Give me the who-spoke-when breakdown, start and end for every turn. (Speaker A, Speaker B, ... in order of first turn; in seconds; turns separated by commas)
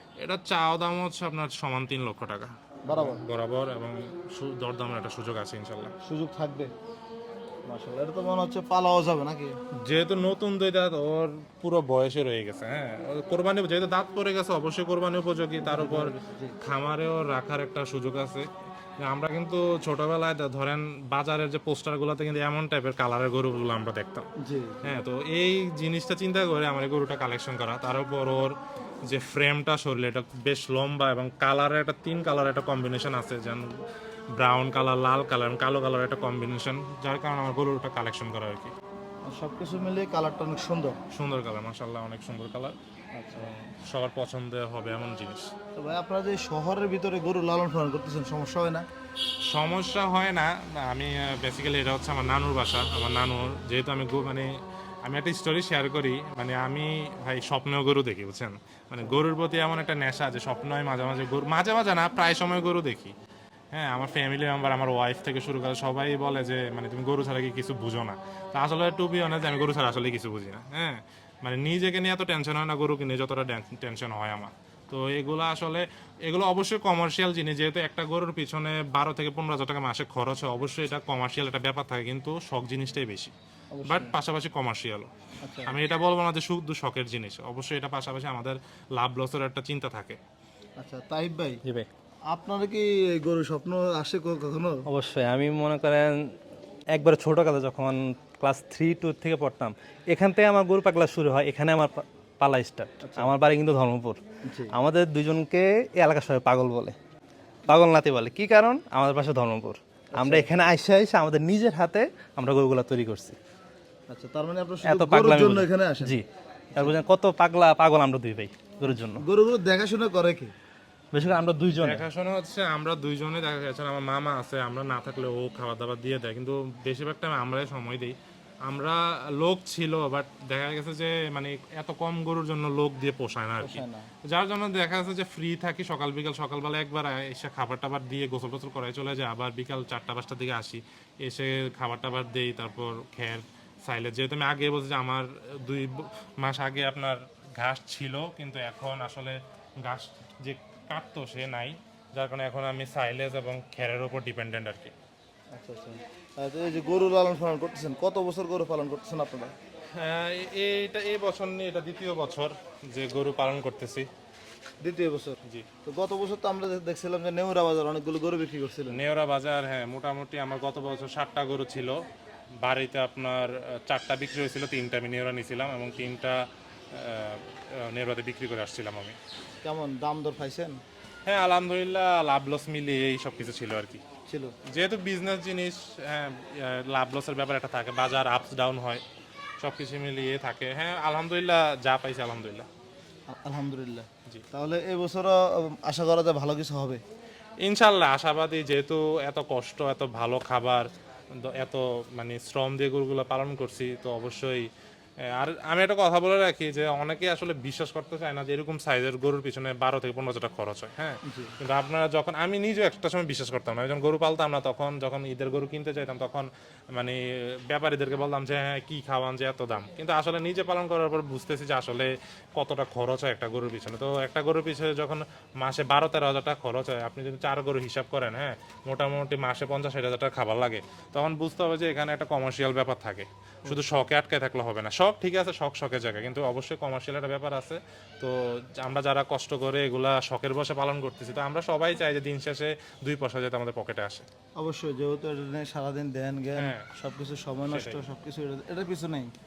Speaker A: 0.2-5.9, Speaker B: 2.9-3.2, Speaker B: 6.0-6.7, Speaker B: 7.7-9.6, Speaker A: 9.8-18.5, Speaker B: 15.6-16.6, Speaker A: 19.0-24.3, Speaker B: 24.4-25.0, Speaker A: 24.8-28.6, Speaker A: 29.1-33.8, Speaker A: 34.3-38.7, Speaker B: 39.3-41.0, Speaker A: 41.1-42.8, Speaker B: 43.1-43.5, Speaker A: 43.4-45.5, Speaker B: 45.8-48.9, Speaker A: 49.5-54.5, Speaker A: 55.0-63.1, Speaker A: 63.7-83.3, Speaker B: 83.7-84.2, Speaker A: 83.9-85.1, Speaker B: 85.4-85.8, Speaker A: 85.7-90.2, Speaker B: 90.8-91.6, Speaker B: 92.3-94.8, Speaker C: 94.9-96.1, Speaker C: 96.9-104.2, Speaker B: 103.0-103.3, Speaker B: 104.4-104.7, Speaker C: 104.7-107.0, Speaker C: 107.7-113.4, Speaker B: 110.1-110.5, Speaker B: 114.1-116.2, Speaker C: 114.8-116.2, Speaker C: 116.8-119.2, Speaker B: 119.2-120.5, Speaker C: 121.1-122.0, Speaker A: 121.8-128.2, Speaker A: 128.7-154.9, Speaker B: 133.6-134.1, Speaker B: 155.5-159.5, Speaker A: 159.9-164.1, Speaker B: 164.8-169.0, Speaker A: 168.9-172.0, Speaker A: 172.6-179.2, Speaker B: 179.6-180.8, Speaker A: 181.3-184.0, Speaker B: 184.3-184.5, Speaker A: 184.7-189.0, Speaker A: 189.6-192.7, Speaker B: 193.3-197.0, Speaker A: 197.6-200.9, Speaker A: 201.4-204.7, Speaker A: 205.3-244.3, Speaker B: 211.3-211.6, Speaker B: 233.7-234.0, Speaker B: 244.6-249.3, Speaker A: 246.6-246.9, Speaker A: 247.7-248.1